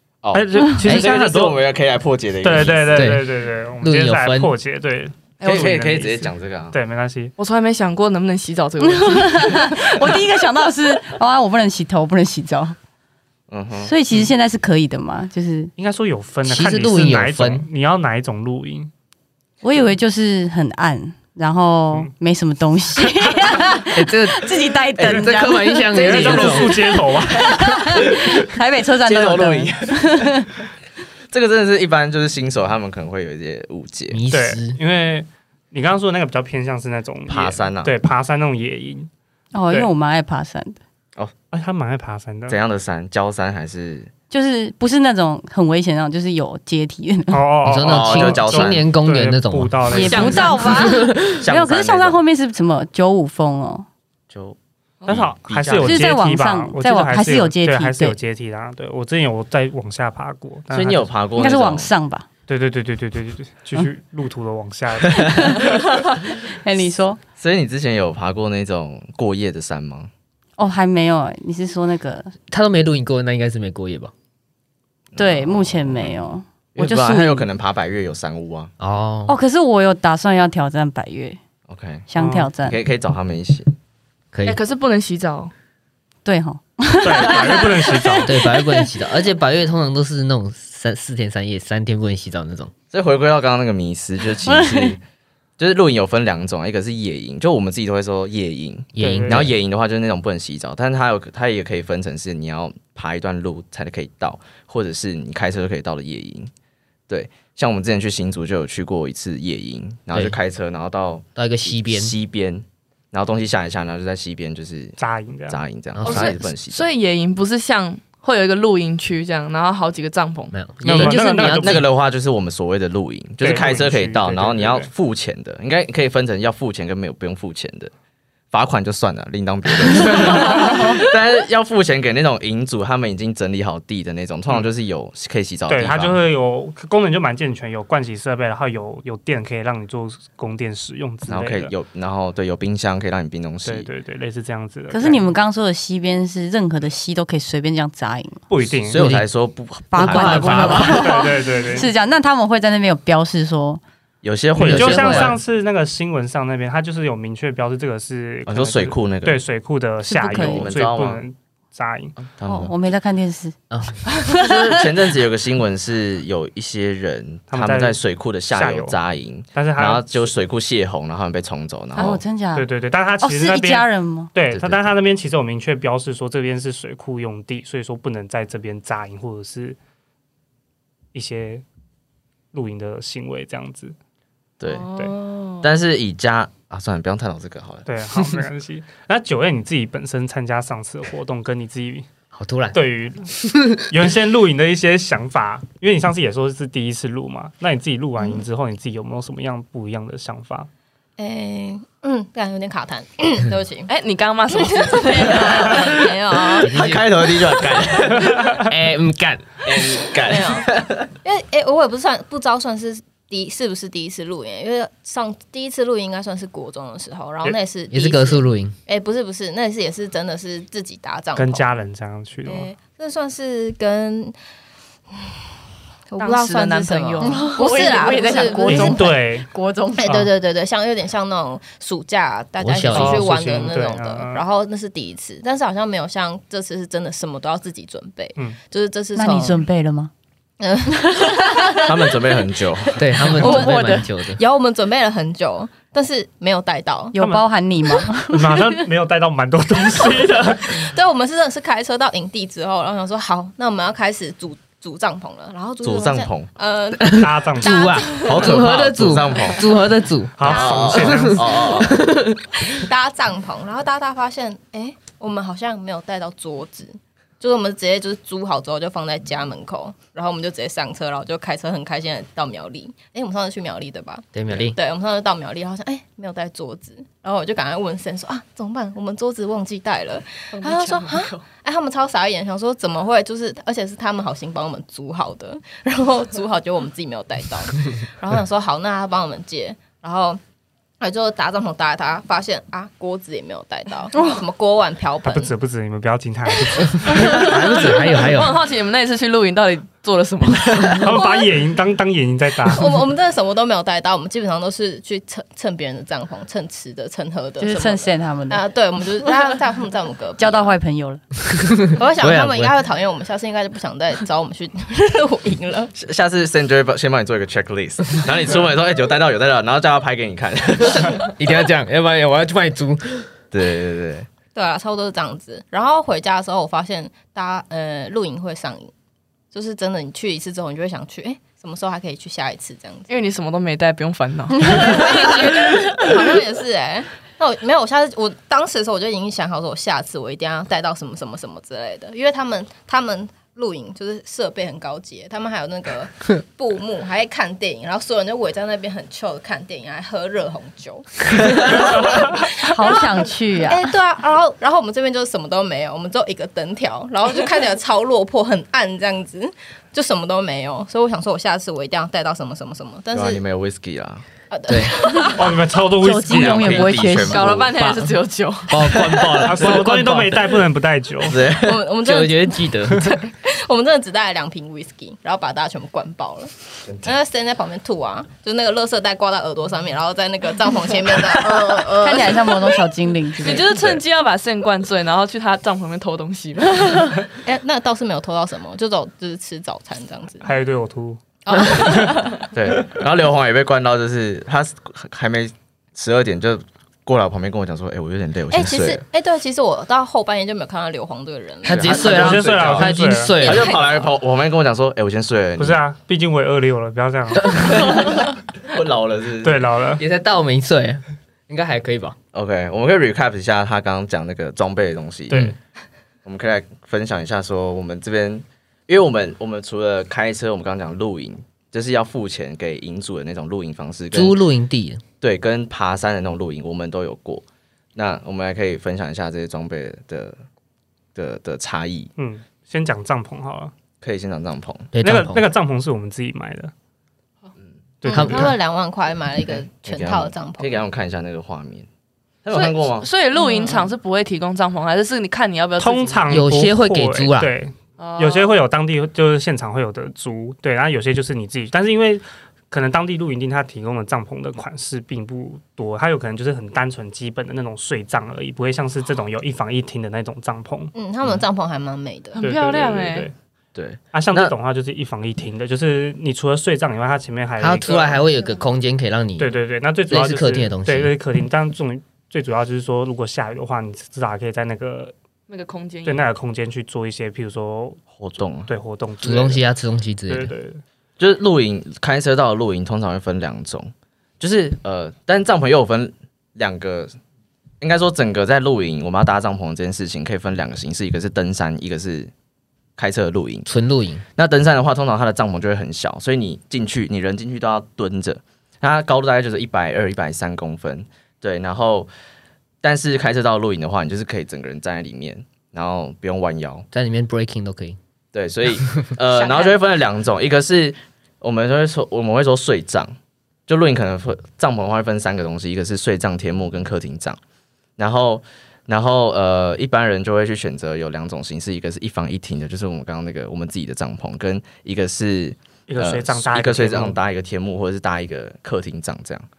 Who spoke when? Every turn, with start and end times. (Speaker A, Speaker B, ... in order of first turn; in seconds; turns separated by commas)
Speaker A: 0.2-3.1, Speaker B: 0.3-1.6, Speaker B: 2.4-7.3, Speaker C: 3.0-3.3, Speaker C: 3.8-4.5, Speaker A: 5.4-6.8, Speaker D: 7.4-10.2, Speaker E: 8.8-12.8, Speaker A: 13.5-13.9, Speaker E: 13.8-15.7, Speaker B: 15.8-18.9, Speaker C: 16.4-17.7, Speaker E: 19.6-30.5, Speaker C: 23.9-24.5, Speaker A: 25.0-26.6, Speaker C: 25.0-26.8, Speaker B: 26.0-27.8, Speaker A: 29.1-30.4, Speaker A: 31.3-34.2, Speaker C: 34.1-34.8, Speaker B: 34.3-39.1, Speaker A: 37.3-37.9, Speaker E: 39.5-40.8, Speaker B: 41.5-42.6, Speaker A: 42.5-44.1, Speaker E: 44.3-47.5, Speaker B: 47.3-50.6, Speaker C: 47.6-50.3, Speaker A: 47.8-48.9, Speaker E: 49.9-53.9, Speaker D: 50.0-51.0, Speaker A: 51.3-52.2, Speaker A: 54.3-56.0, Speaker B: 55.1-61.1, Speaker E: 55.8-58.2, Speaker A: 60.7-61.9, Speaker E: 61.3-62.3, Speaker B: 62.5-65.4, Speaker E: 65.4-67.2, Speaker A: 67.4-70.1, Speaker E: 70.6-72.3, Speaker C: 72.5-74.1, Speaker A: 75.1-76.2, Speaker E: 75.2-77.5, Speaker A: 76.7-78.7, Speaker C: 78.8-79.4, Speaker E: 79.3-81.4, Speaker A: 81.7-82.1, Speaker E: 82.1-82.8, Speaker B: 82.2-82.5, Speaker A: 82.6-83.7, Speaker C: 84.3-84.6, Speaker D: 84.5-85.5, Speaker E: 86.2-89.1, Speaker B: 87.0-88.3, Speaker C: 88.2-92.7, Speaker A: 92.9-95.0, Speaker E: 94.4-95.0, Speaker A: 95.6-106.5, Speaker C: 99.0-99.5, Speaker B: 99.0-99.5, Speaker A: 107.1-115.0, Speaker C: 111.4-112.1, Speaker B: 115.0-115.6, Speaker A: 115.5-116.9, Speaker C: 115.9-116.5, Speaker D: 116.0-120.5, Speaker C: 120.5-121.9, Speaker B: 120.8-121.8, Speaker A: 120.9-127.9, Speaker B: 123.4-124.9, Speaker A: 128.5-136.2, Speaker B: 130.0-131.0, Speaker B: 135.7-141.7, Speaker A: 141.3-143.9, Speaker B: 143.6-145.3, Speaker E: 144.9-148.4, Speaker B: 148.5-149.0, Speaker A: 148.8-151.3, Speaker C: 148.9-149.3, Speaker E: 149.9-153.8, Speaker C: 150.0-150.9, Speaker B: 150.2-151.9, Speaker A: 154.2-155.4, Speaker C: 154.6-155.4, Speaker B: 154.6-162.2, Speaker A: 158.5-159.4, Speaker E: 160.1-160.7, Speaker A: 160.3-161.2, Speaker A: 162.2-162.7, Speaker E: 162.4-163.6, Speaker C: 163.7-164.1, Speaker E: 164.2-164.8, Speaker A: 164.3-172.2, Speaker B: 167.5-168.0, Speaker B: 168.5-169.0, Speaker B: 169.5-170.3, Speaker E: 171.9-172.7, Speaker B: 172.0-179.8, Speaker E: 173.2-174.3, Speaker A: 174.5-174.8, Speaker B: 181.1-181.6, Speaker B: 182.5-183.9, Speaker A: 184.6-184.9, Speaker D: 184.7-185.7, Speaker A: 185.6-187.9, Speaker B: 187.9-192.1, Speaker C: 192.3-192.8, Speaker B: 192.7-200.7, Speaker C: 193.4-193.8, Speaker F: 201.2-203.9, Speaker D: 203.9-206.1, Speaker F: 204.5-206.8, Speaker A: 206.5-208.4, Speaker C: 206.6-207.3, Speaker B: 208.1-208.6, Speaker C: 208.2-209.5, Speaker A: 209.7-211.1, Speaker F: 210.1-210.7, Speaker F: 211.2-221.7, Speaker C: 217.9-218.8, Speaker B: 221.3-222.7, Speaker F: 222.5-224.3, Speaker F: 226.1-229.1, Speaker D: 226.2-228.9, Speaker E: 227.2-230.1, Speaker B: 228.7-229.5, Speaker F: 230.0-239.7, Speaker C: 232.6-233.4, Speaker B: 232.9-234.4, Speaker E: 239.2-240.1, Speaker F: 240.6-242.4, Speaker A: 241.8-243.1, Speaker C: 242.9-244.4, Speaker F: 243.2-247.2, Speaker E: 243.4-244.1, Speaker E: 247.1-248.8, Speaker B: 247.2-247.4, Speaker B: 248.2-250.9, Speaker F: 250.1-258.6, Speaker A: 255.8-256.5, Speaker C: 257.0-262.8, Speaker B: 257.1-258.2, Speaker A: 258.1-259.7, Speaker B: 260.4-261.5, Speaker F: 260.4-260.9, Speaker A: 260.5-262.1, Speaker F: 262.7-290.4, Speaker C: 274.3-274.8, Speaker D: 280.5-281.4, Speaker F: 291.0-295.5, Speaker B: 295.2-297.2, Speaker F: 296.6-297.9, Speaker C: 296.9-298.6, Speaker D: 297.1-301.1, Speaker B: 300.9-302.9, Speaker F: 301.0-301.5, Speaker F: 302.7-310.8, Speaker E: 307.6-308.6, Speaker E: 310.4-311.2, Speaker F: 311.9-315.9, Speaker C: 312.2-312.8, Speaker A: 316.0-321.3, Speaker C: 321.4-323.3, Speaker A: 323.5-324.3, Speaker F: 324.6-328.9, Speaker F: 329.5-333.1, Speaker D: 333.1-335.6, Speaker F: 334.6-363.4, Speaker E: 352.7-353.9, Speaker A: 363.1-364.2, Speaker F: 364.5-365.6, Speaker C: 364.7-365.0, Speaker B: 365.3-366.9, Speaker E: 366.0-367.5, Speaker A: 366.4-367.8, Speaker D: 367.2-369.5, Speaker C: 367.8-368.1, Speaker C: 368.7-370.6, Speaker B: 369.4-371.4, Speaker A: 371.2-371.8, Speaker F: 371.5-382.8, Speaker C: 372.0-373.1, Speaker E: 381.9-383.8, Speaker D: 383.4-387.2, Speaker F: 387.4-390.5, Speaker B: 390.4-392.2, Speaker F: 391.4-392.5, Speaker A: 392.5-399.0, Speaker F: 398.5-402.2, Speaker C: 401.6-403.8, Speaker A: 401.7-405.8, Speaker B: 402.0-403.4, Speaker F: 403.4-404.0, Speaker B: 405.6-408.1, Speaker A: 407.7-409.7, Speaker B: 409.4-410.0, Speaker C: 410.0-412.2, Speaker A: 412.3-415.5, Speaker A: 416.2-424.4, Speaker C: 424.1-425.0, Speaker A: 425.2-427.4, Speaker A: 427.9-430.4, Speaker A: 431.1-432.1, Speaker B: 432.2-433.7, Speaker A: 434.0-434.9, Speaker C: 434.9-435.4, Speaker B: 435.0-436.7, Speaker B: 438.0-438.5, Speaker F: 438.0-440.8, Speaker C: 438.1-438.6, Speaker A: 439.8-441.9, Speaker A: 442.4-443.1, Speaker D: 442.5-446.4, Speaker F: 443.4-443.9, Speaker B: 445.8-460.9, Speaker C: 446.3-447.5, Speaker D: 448.0-448.6, Speaker F: 460.9-462.4, Speaker D: 462.4-463.3, Speaker B: 462.4-463.3, Speaker A: 463.8-464.5, Speaker B: 464.1-468.2, Speaker C: 467.6-469.6, Speaker B: 469.4-475.1, Speaker C: 470.1-471.1, Speaker D: 475.5-476.3, Speaker B: 476.1-478.0, Speaker A: 478.1-478.7, Speaker B: 478.6-479.6, Speaker C: 479.2-480.5, Speaker B: 480.3-480.8, Speaker A: 481.2-487.1, Speaker A: 487.8-492.3, Speaker A: 493.0-493.7, Speaker C: 493.7-494.2, Speaker A: 494.4-502.1, Speaker A: 502.8-506.9, Speaker C: 506.9-508.0, Speaker A: 508.3-513.1, Speaker A: 513.7-517.4, Speaker A: 518.0-529.5, Speaker B: 525.9-527.2